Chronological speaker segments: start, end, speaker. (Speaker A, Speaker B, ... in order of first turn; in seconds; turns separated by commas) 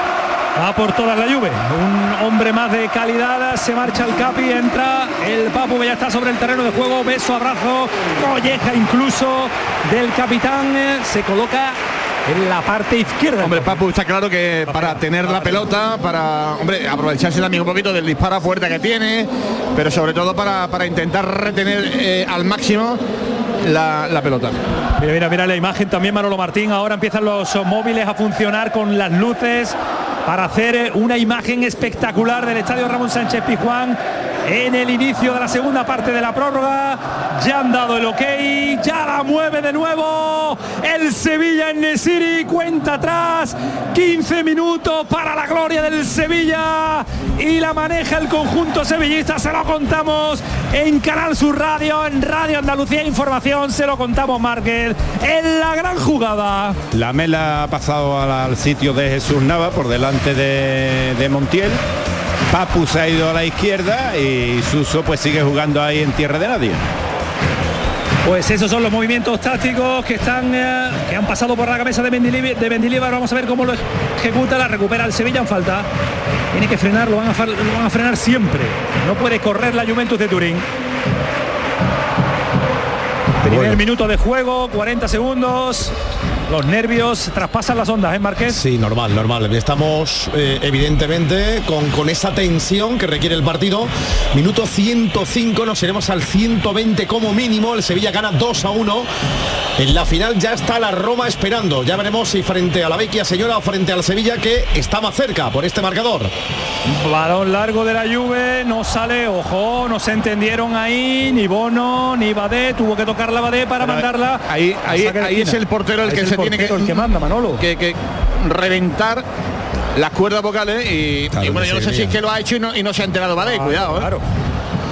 Speaker A: 0.6-13.8, Speaker B: 13.4-23.0, Speaker A: 14.7-15.7, Speaker B: 23.6-24.6, Speaker A: 25.0-56.8, Speaker C: 56.9-61.8, Speaker C: 62.5-66.8, Speaker A: 68.2-75.9, Speaker A: 76.5-80.7, Speaker A: 83.4-85.9, Speaker D: 83.4-83.8, Speaker A: 86.5-88.6, Speaker D: 88.5-99.1, Speaker D: 99.8-106.3, Speaker A: 106.8-117.7, Speaker B: 113.8-119.2, Speaker B: 119.9-124.1, Speaker D: 121.3-122.2, Speaker A: 123.4-124.2